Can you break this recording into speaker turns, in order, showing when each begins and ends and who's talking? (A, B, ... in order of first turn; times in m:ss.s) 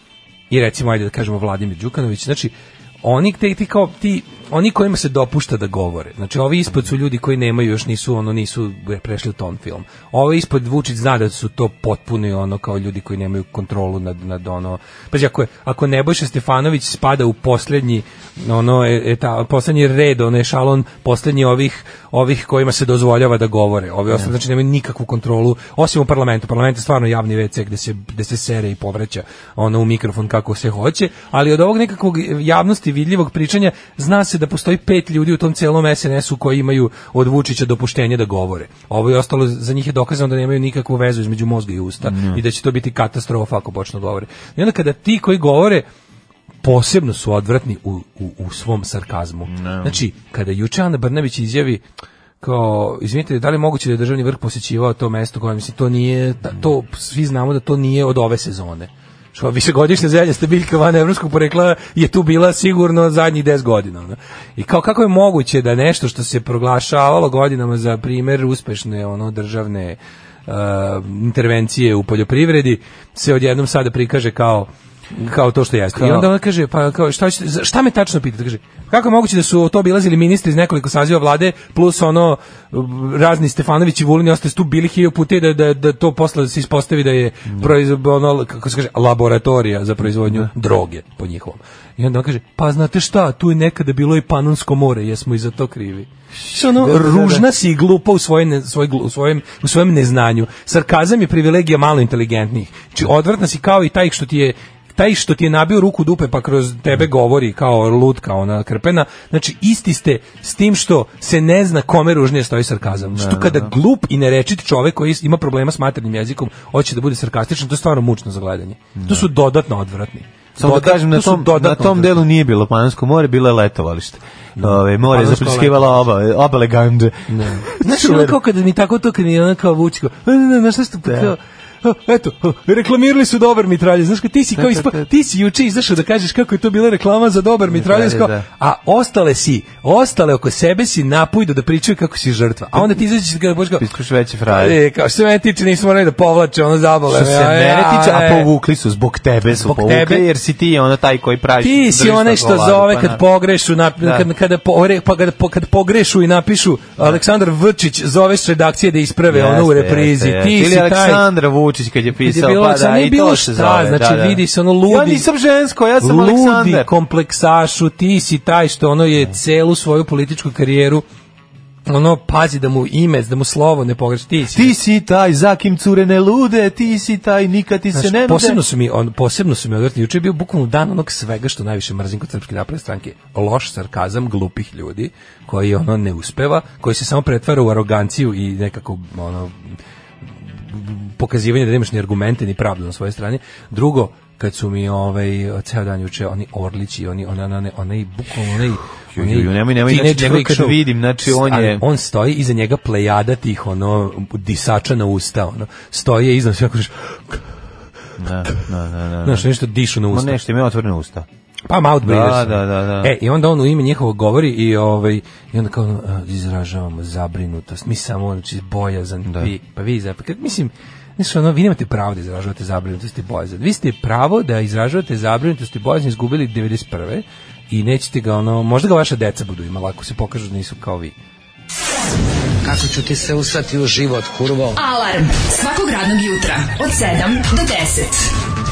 0:00.5-0:45.8 A
0:42.0-0:42.4 B
0:46.6-0:51.8 A
0:49.5-0:50.0 B
0:52.4-2:02.2 A
1:15.9-1:16.3 B
1:36.4-1:37.4 B
1:52.9-1:53.7 B
1:59.0-1:59.3 B
2:00.6-2:08.4 B
2:04.6-2:06.0 A
2:07.3-2:23.9 A
2:11.0-2:11.3 B
2:14.5-2:15.0 B
2:17.7-2:18.4 B
2:23.8-2:24.8 B
2:24.5-2:28.5 A
2:27.1-2:33.2 B
2:29.5-2:30.3 A
2:31.6-2:41.2 A
2:34.0-2:34.3 B
2:39.3-2:46.9 B
2:42.2-2:45.3 A
2:46.0-2:51.0 A
2:51.9-2:54.7 A
2:54.5-2:58.6 B
2:57.9-3:09.8 A
3:10.4-3:27.4 A
3:19.1-3:21.8 B
3:28.2-3:29.4 B
3:29.2-3:30.4 A
3:30.1-3:31.2 B
3:31.7-3:51.1 A
3:32.0-3:33.1 B
3:39.2-3:39.5 B
3:52.6-3:54.7 C
3:54.7-3:58.3 D